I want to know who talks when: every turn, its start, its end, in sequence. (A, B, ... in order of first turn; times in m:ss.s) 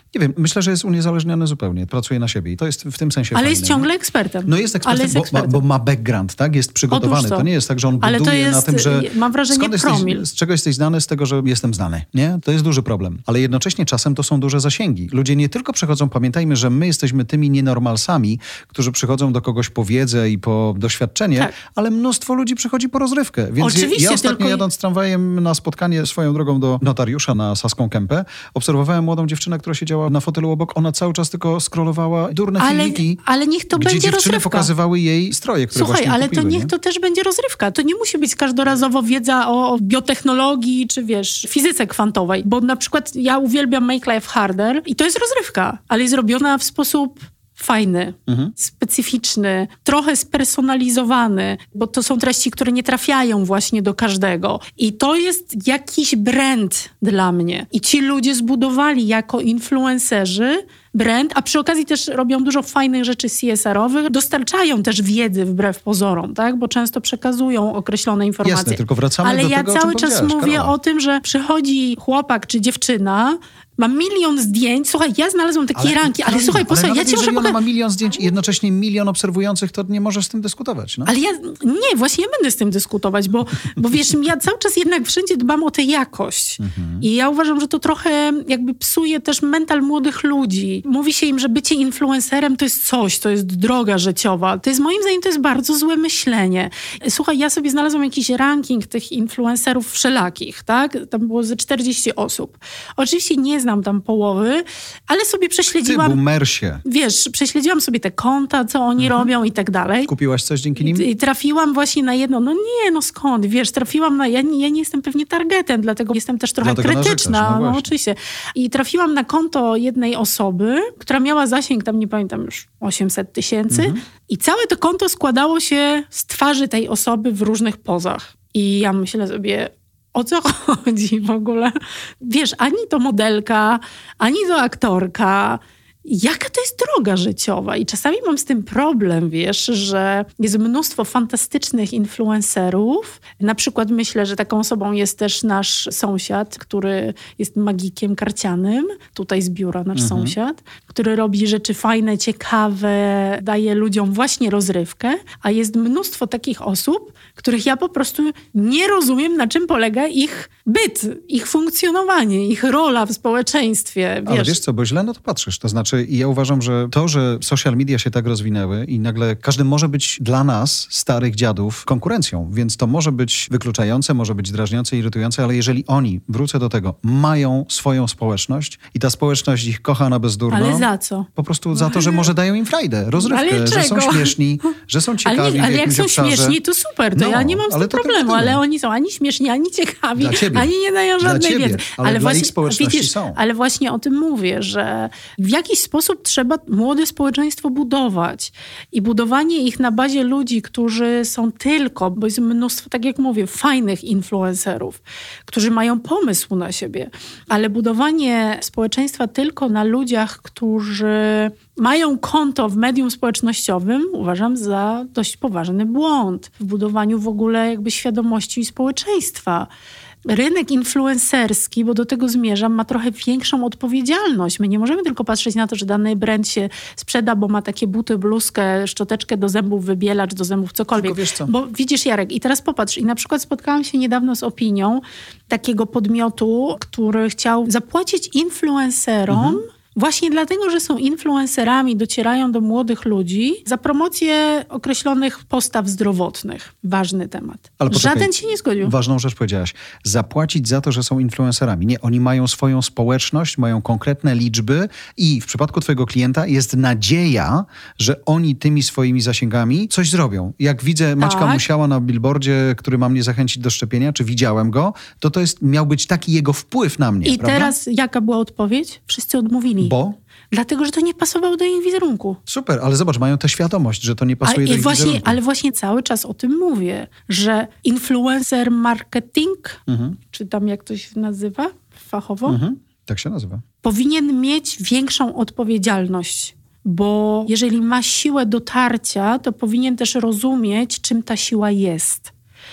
0:00.1-0:03.9 A
0:03.3-0:05.6 B
0:04.5-0:33.2 A
0:06.9-0:07.5 B
0:08.0-0:10.2 B
0:23.6-0:24.6 B
0:32.6-0:34.7 B
0:33.8-0:36.7 A
0:35.7-1:17.6 B
0:48.3-0:48.5 A
1:08.4-1:10.7 A
1:15.8-1:21.1 A
1:21.0-1:46.2 B
1:26.6-1:27.0 A
1:45.8-1:46.8 A
1:46.8-1:50.1 B
1:49.0-1:49.3 A
1:50.1-1:51.0 A
1:50.8-2:44.6 B
1:56.6-1:57.9 A
2:03.7-2:04.0 A
2:29.9-2:30.3 A
2:44.2-3:06.6 A
3:00.5-3:02.3 B
3:03.2-3:04.7 B
3:05.2-3:39.7 B
3:07.1-3:08.6 A
3:10.2-3:13.4 A
3:40.3-4:08.9 B
3:50.9-3:51.5 A
3:59.3-3:59.6 A
4:07.8-4:08.3 A
4:08.8-4:27.7 A
4:21.2-4:21.6 B
4:27.2-4:29.9 B
4:29.8-4:30.2 A
4:30.5-4:32.4 B
4:32.5-4:35.4 A
4:34.4-4:42.6 B
4:39.9-4:40.2 A
4:42.5-4:43.6 A
4:43.8-4:52.3 B